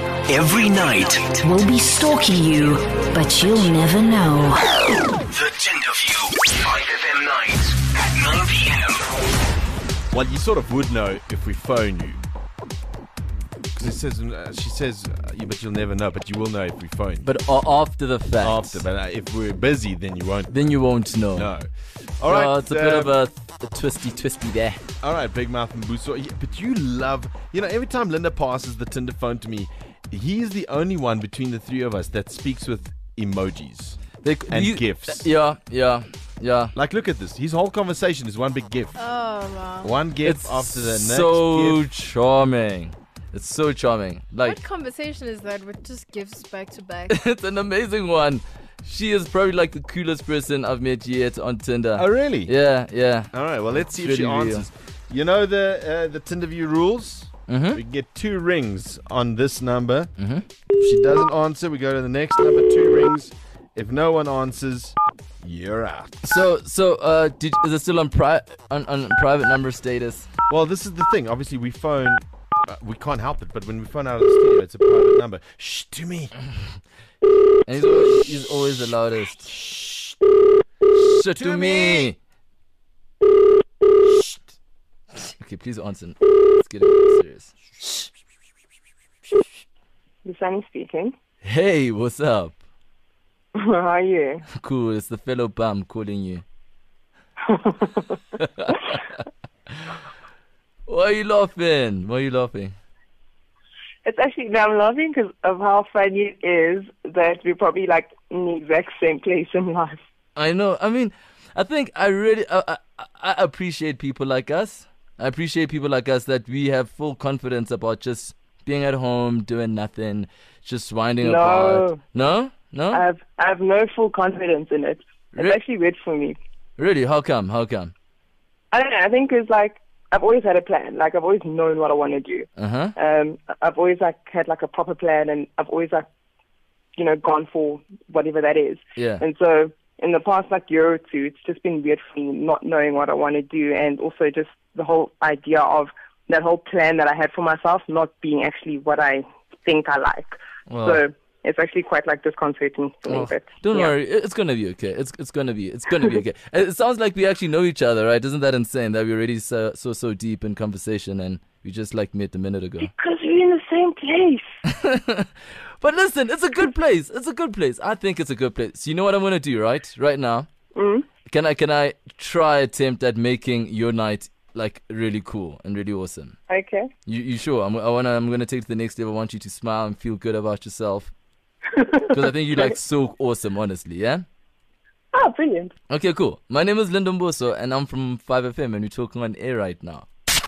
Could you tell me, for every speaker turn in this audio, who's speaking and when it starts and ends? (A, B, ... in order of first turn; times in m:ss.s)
0:00.3-0:01.4 A
0:01.3-0:04.7 B
0:05.3-0:09.0 A
0:10.1-0:12.2 C
0:13.7-0:17.3 C
0:17.2-0:18.8 D
0:18.4-0:20.7 C
0:20.5-0:21.5 D
0:21.3-0:21.7 C
0:22.2-0:23.1 C
0:22.2-0:24.8 D
0:25.0-0:35.2 C
0:34.2-0:36.7 D
0:36.7-0:39.0 C
0:39.0-0:40.0 E
0:39.8-0:41.8 C
0:40.2-0:44.6 D
0:44.4-0:47.2 E
0:47.1-0:54.6 D
0:52.0-0:52.5 C
0:53.3-1:00.1 C
0:57.5-0:57.8 D
1:00.2-1:00.4 D
1:00.8-1:06.4 C
1:06.2-1:10.3 D
1:10.5-1:16.3 C
1:17.6-1:19.6 D
1:21.0-1:22.2 D
1:25.4-1:27.5 D
1:30.2-1:31.1 F
1:31.4-1:32.6 D
1:33.5-1:34.4 F
1:34.5-1:36.4 D
1:37.4-1:38.1 F
1:38.4-1:39.0 D
1:40.9-1:42.7 D
1:44.0-1:50.0 F
1:50.4-2:03.0 D
2:01.2-2:02.0 F
2:02.9-2:06.4 F
2:05.3-2:05.6 D
2:06.8-2:07.9 D
2:08.7-2:16.0 F
2:12.6-2:12.9 D
2:17.0-2:33.9 F
2:19.0-2:19.2 D
2:30.7-2:31.0 D
2:33.1-2:42.9 D
2:42.8-2:44.4 F
2:44.7-2:45.3 D
2:45.8-2:50.5 D
2:50.7-2:51.0 F
2:51.2-2:56.3 D
2:56.5-2:56.9 F
2:57.0-3:01.1 D
3:01.8-3:02.0 F
3:02.0-3:04.2 D
3:05.1-3:05.7 F
3:05.9-3:10.0 D